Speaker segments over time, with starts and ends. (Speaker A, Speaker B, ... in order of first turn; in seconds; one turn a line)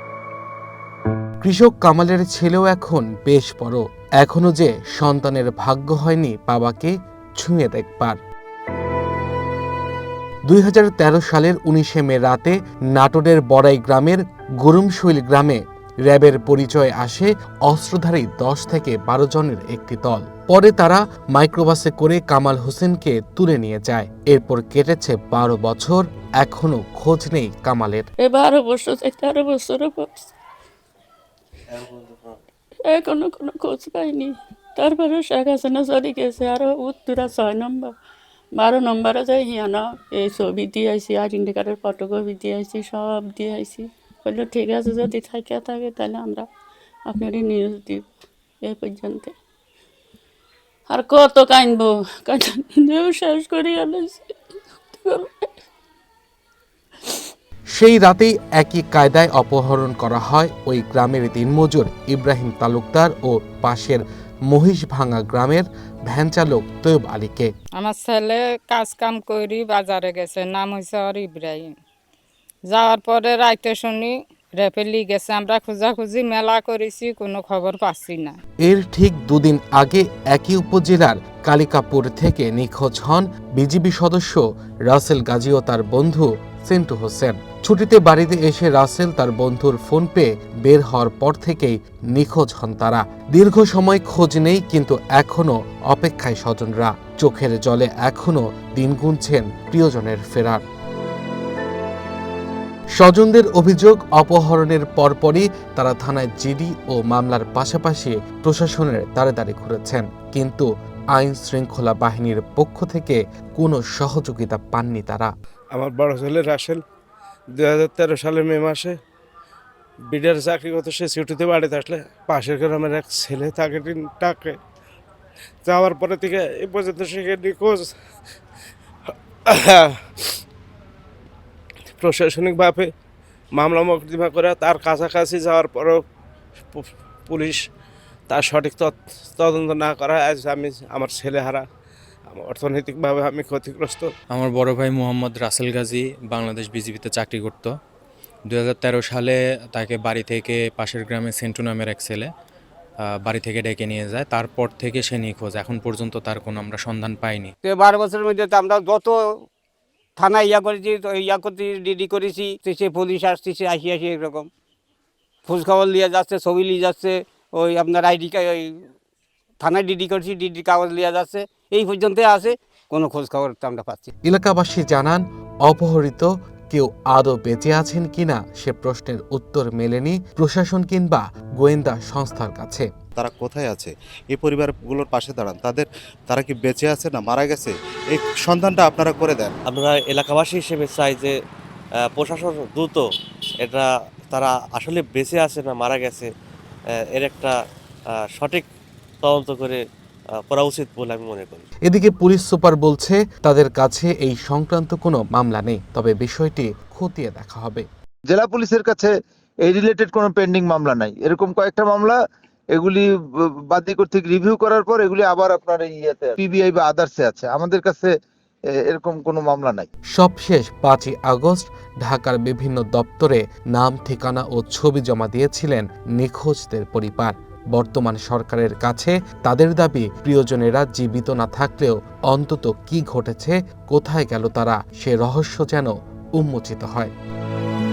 Speaker A: 1.4-8.2
Speaker A: 10.4-28.1
Speaker B: 28.2-30.3
Speaker B: 32.8-37.9
Speaker B: 38.5-46.5
Speaker B: 47.1-48.1
Speaker B: 48.6-49.3
Speaker B: 50.9-55.6
Speaker A: 57.7-67.5
Speaker C: 67.8-71.7
Speaker C: 72.7-78.4
Speaker A: 78.6-100.6
Speaker A: 103.0-115.3
Speaker D: 115.7-116.8
Speaker D: 117.5-118.9
Speaker D: 120.1-124.6
Speaker D: 125.6-127.9
Speaker D: 129.5-129.9
Speaker D: 132.0-132.9
Speaker D: 133.5-136.0
Speaker D: 136.7-137.6
Speaker D: 138.3-141.6
Speaker D: 142.3-144.1
Speaker E: 144.3-147.7
Speaker E: 148.5-152.3
Speaker E: 153.2-157.5
Speaker F: 157.6-159.4
Speaker F: 160.2-164.5
Speaker F: 165.4-168.8
Speaker F: 169.6-174.1
Speaker A: 174.2-182.9
Speaker G: 183.2-189.5
Speaker H: 189.7-191.3
Speaker H: 192.1-193.0
Speaker H: 193.6-196.3
Speaker H: 197.1-197.6
Speaker H: 198.1-198.6
Speaker H: 199.2-199.8
Speaker H: 200.3-201.6
Speaker A: 201.9-207.8
Speaker I: 208.3-209.1
Speaker I: 209.6-212.2
Speaker I: 212.7-213.0
Speaker I: 213.7-218.1
Speaker I: 218.8-219.9
Speaker A: 220.1-237.1